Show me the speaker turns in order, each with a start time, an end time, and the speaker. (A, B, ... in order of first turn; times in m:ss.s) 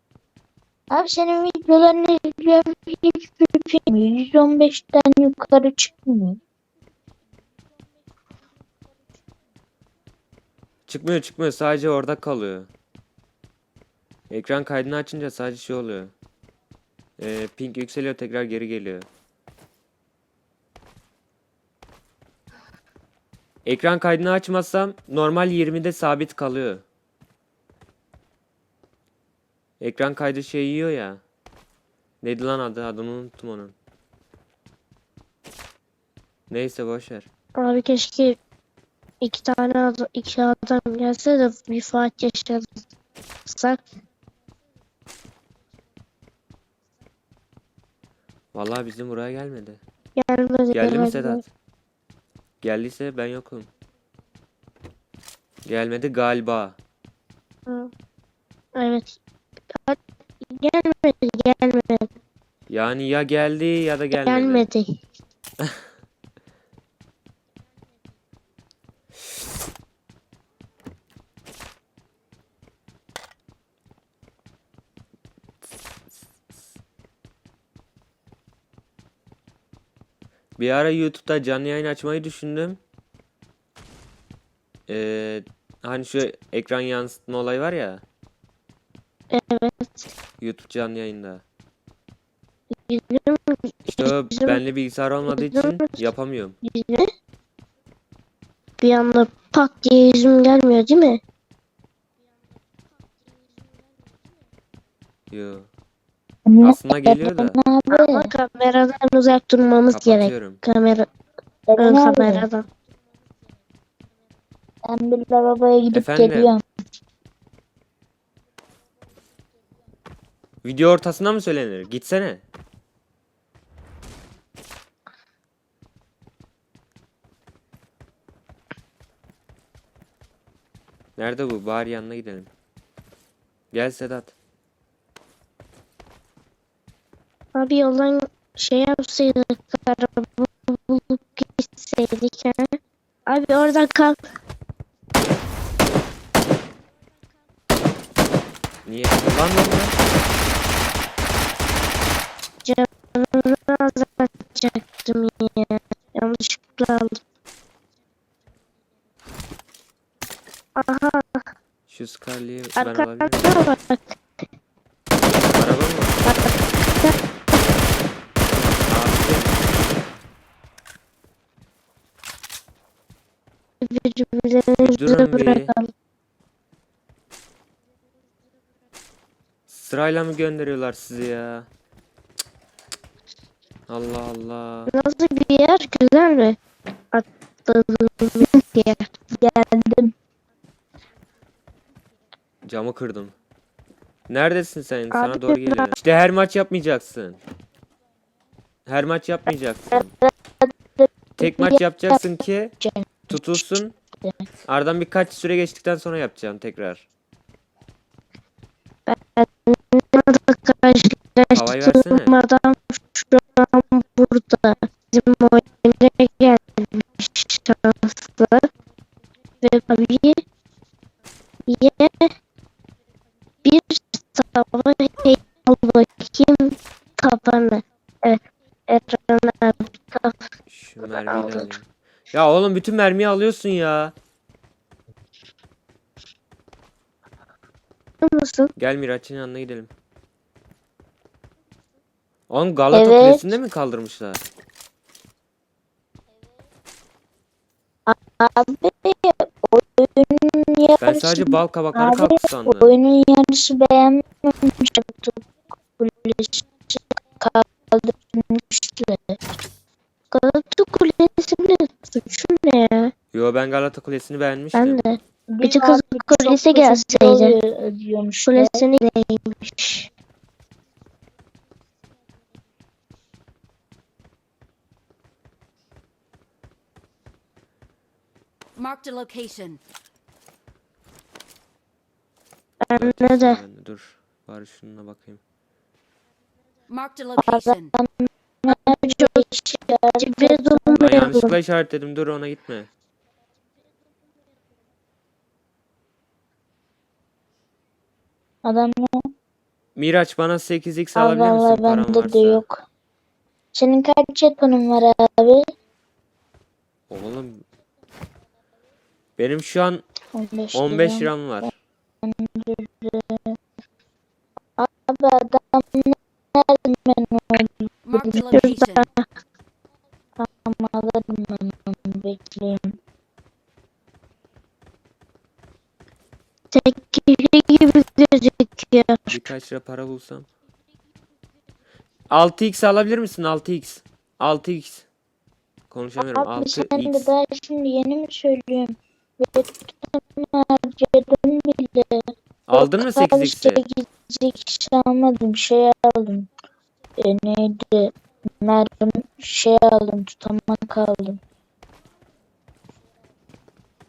0:00.9-0:06.4 A
0:10.9-0:12.7 B
0:14.3-0:16.1 B
0:17.2-0:19.1 B
0:23.6-0:26.8 B
0:29.8-0:31.2 B
0:32.2-0:33.7 B
0:36.5-0:37.3 B
0:37.6-0:38.4 C
0:39.2-0:42.8 C
0:43.5-0:43.8 C
0:48.5-0:49.8 B
0:50.2-0:51.4 C
0:50.7-0:51.4 B
0:52.6-0:53.7 B
0:55.6-0:56.8 B
0:58.8-0:59.2 C
0:59.7-1:02.1 C
1:02.7-1:04.6 B
1:04.2-1:04.9 C
1:20.6-1:22.8 B
1:24.9-1:28.0 B
1:29.3-1:30.1 C
1:30.4-1:31.4 B
1:32.9-1:34.6 C
1:33.8-1:36.6 B
1:35.3-1:36.0 C
1:36.6-1:37.1 C
1:38.8-1:41.2 C
1:45.3-1:45.7 B
1:46.5-1:48.3 A
1:46.6-1:47.6 B
1:47.9-1:51.1 C
1:49.9-1:50.6 B
1:51.7-1:52.5 A
1:51.8-1:52.6 C
1:54.8-1:56.6 A
1:55.9-1:56.6 B
2:00.6-2:02.4 B
2:11.2-2:12.5 B
2:13.7-2:14.3 B
2:17.5-2:24.2 C
2:28.8-2:30.0 B
2:32.6-2:37.2 C
2:40.8-2:41.5 C
2:41.9-2:43.6 B
2:42.8-2:44.2 C
2:45.5-2:46.2 B
2:46.2-2:47.1 C
2:48.9-2:49.7 B
2:53.8-2:55.9 C
2:54.8-2:55.7 B
2:59.7-3:01.7 B
3:03.9-3:04.9 B
3:04.9-3:06.6 C
3:07.1-3:09.1 C
3:09.4-3:10.1 A
3:12.6-3:13.3 B
3:14.3-3:17.4 B
3:15.1-3:15.9 C
3:18.8-3:20.1 B
3:19.9-3:22.2 A
3:21.4-3:22.7 B
3:22.8-3:23.6 A
3:23.3-3:23.9 B
3:24.7-3:27.0 B
3:29.1-3:38.7 C
3:31.5-3:32.3 B
3:39.6-3:40.4 C
3:41.7-3:42.3 C
3:43.6-3:50.5 C
3:50.7-3:54.1 B
3:51.0-3:51.7 C
3:58.2-3:58.7 C
3:58.8-3:59.9 B
4:02.5-4:04.4 B
4:02.9-4:03.5 A
4:08.1-4:15.4 A
4:11.0-4:12.9 B
4:16.0-4:19.4 A
4:20.3-4:23.1 C
4:23.3-4:25.0 B
4:24.7-4:27.5 C
4:25.5-4:29.0 A
4:28.5-4:30.1 C
4:38.7-4:39.8 D
4:42.8-4:43.6 C
4:43.0-4:45.4 B
4:46.9-4:47.9 D
4:47.4-4:51.3 A
4:48.7-4:49.5 C
4:50.2-4:51.5 C
4:50.9-4:52.9 B
4:58.6-4:59.3 A
5:00.0-5:02.6 B
5:01.1-5:02.8 A
5:03.7-5:05.6 A
5:07.1-5:07.6 B
5:09.4-5:10.0 B
5:10.3-5:11.7 A
5:10.7-5:11.7 B
5:12.2-5:13.6 A
5:14.8-5:18.5 A
5:18.0-5:19.0 D
5:18.5-5:19.2 C
5:20.4-5:23.0 A
5:26.7-5:29.3 C
5:29.3-5:30.5 B
5:32.3-5:35.1 B
5:35.9-5:37.3 B
5:36.2-5:46.5 A
5:42.7-5:43.8 B
5:47.2-5:51.4 A